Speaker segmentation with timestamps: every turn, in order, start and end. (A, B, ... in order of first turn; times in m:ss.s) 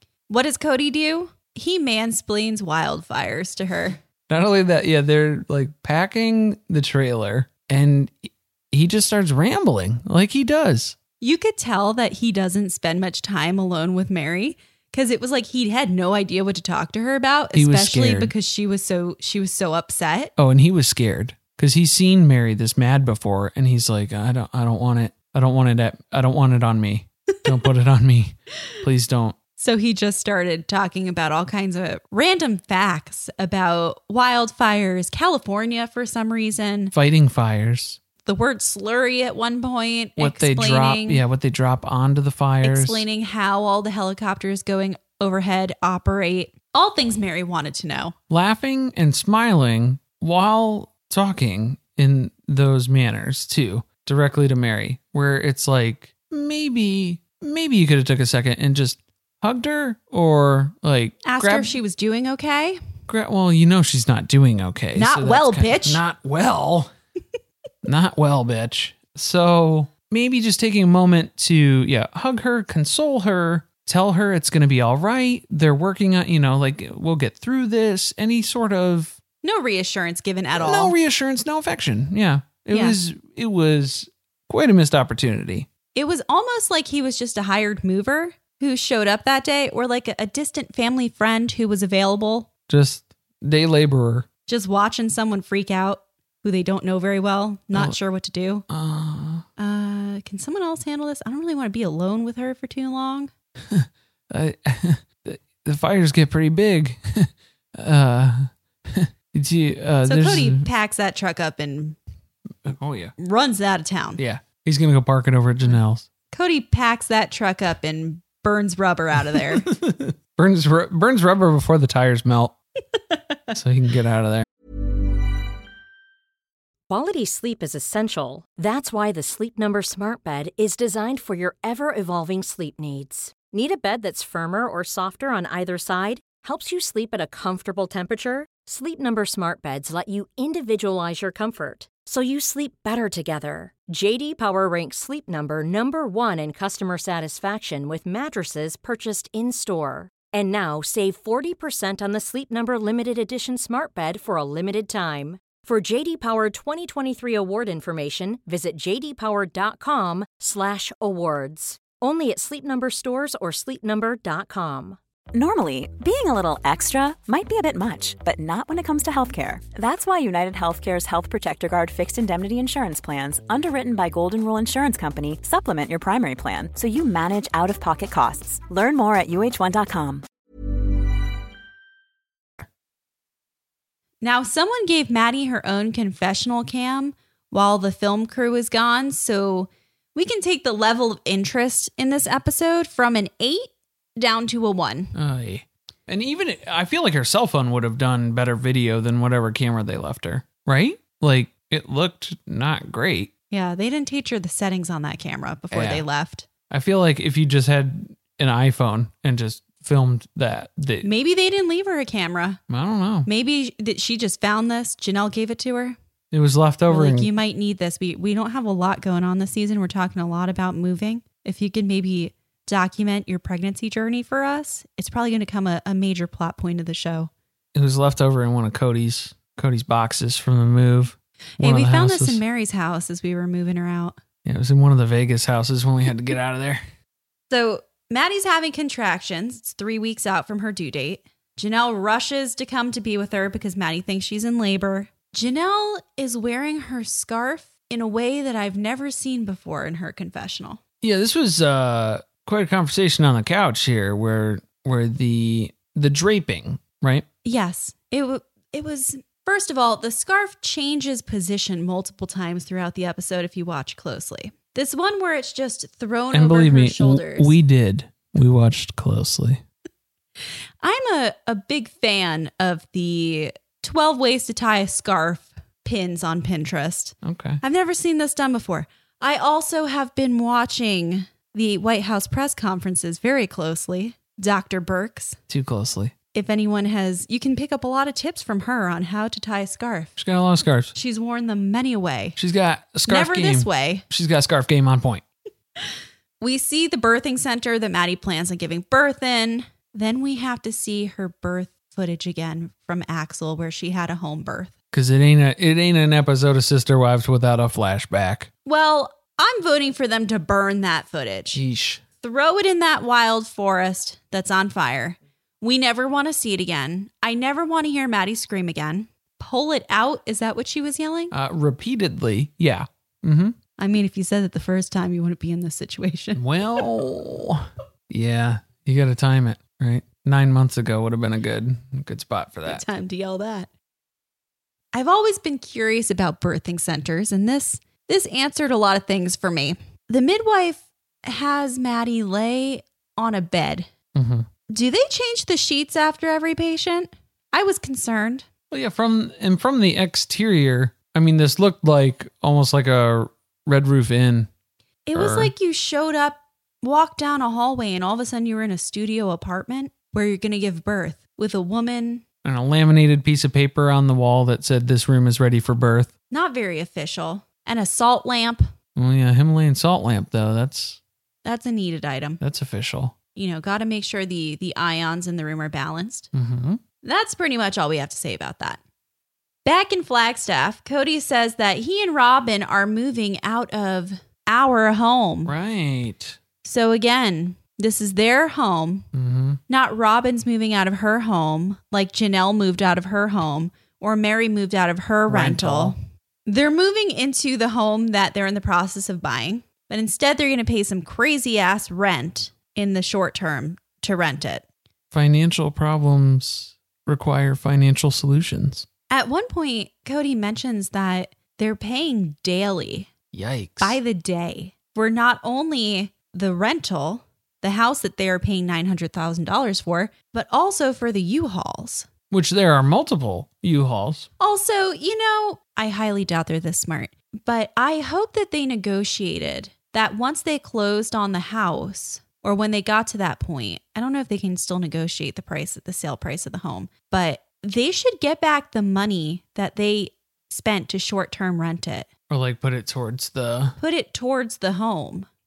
0:00.3-0:04.0 A
0:04.3-0:11.0 B
0:11.2-0:20.3 A
0:17.5-0:18.3 B
0:20.4-0:29.4 B
0:29.6-0:36.9 A
0:36.9-0:38.0 B
0:38.2-0:41.2 A
0:40.2-0:43.0 B
0:42.6-0:48.1 A
0:48.3-1:01.8 B
1:01.2-1:02.8 A
1:03.1-1:06.9 B
1:04.9-1:06.0 A
1:07.8-1:19.2 B
1:19.4-1:20.9 A
1:20.6-1:25.7 B
1:22.7-1:23.0 A
1:25.9-1:32.5 A
1:32.7-1:34.3 B
1:34.5-1:38.6 A
1:38.7-1:39.4 B
1:39.6-1:43.3 A
1:43.7-1:50.6 B
1:50.0-1:52.0 A
1:52.6-1:53.1 B
1:53.2-1:54.2 A
1:54.2-1:56.0 B
1:56.3-1:59.7 A
1:59.3-2:02.6 B
2:03.5-2:04.4 B
2:06.9-2:45.0 C
2:45.3-3:00.2 D
3:04.2-3:15.1 A
3:15.1-3:23.3 B
3:23.5-3:26.5 A
3:25.7-3:26.0 B
3:26.7-3:31.1 B
3:31.0-3:32.6 A
3:32.7-3:33.3 B
3:33.2-3:36.0 A
3:36.3-3:37.3 B
3:36.9-3:47.3 A
3:47.7-3:52.4 B
3:51.6-3:54.2 A
3:54.4-3:56.8 B
3:57.5-4:10.8 A
4:11.0-4:17.2 B
4:17.4-4:27.5 A
4:26.3-4:29.6 B
4:30.8-4:45.4 A
4:37.2-4:37.6 B
4:45.5-4:46.1 B
4:46.3-4:50.2 A
4:50.2-4:50.9 B
4:50.9-4:52.4 A
4:52.4-4:55.2 B
4:53.1-4:54.0 A
4:55.8-5:04.7 A
5:04.9-5:08.5 B
5:08.6-5:11.6 A
5:11.5-5:12.0 B
5:12.2-5:21.3 A
5:21.3-5:23.6 B
5:23.8-5:26.4 A
5:26.4-5:32.8 B
5:32.6-5:33.7 A
5:34.9-5:43.9 A
5:44.1-5:44.5 B
5:44.7-5:48.4 A
5:48.7-5:54.5 B
5:55.0-6:02.2 A
5:55.1-5:55.5 B
6:02.4-6:06.1 B
6:06.3-6:08.6 A
6:09.0-6:11.0 B
6:11.4-6:12.4 A
6:12.4-6:13.2 B
6:13.3-6:16.3 A
6:16.3-6:16.8 B
6:17.0-6:18.8 A
6:19.6-6:25.5 A
6:25.4-6:26.4 B
6:26.6-6:29.0 A
6:29.1-6:29.6 B
6:29.7-6:44.6 A
6:35.3-6:35.9 B
6:45.1-6:48.8 B
6:49.1-6:53.1 A
6:53.3-6:54.0 B
6:53.8-7:02.1 A
7:02.3-7:04.3 B
7:04.4-7:22.1 A
7:22.3-7:23.8 B
7:23.8-7:25.3 A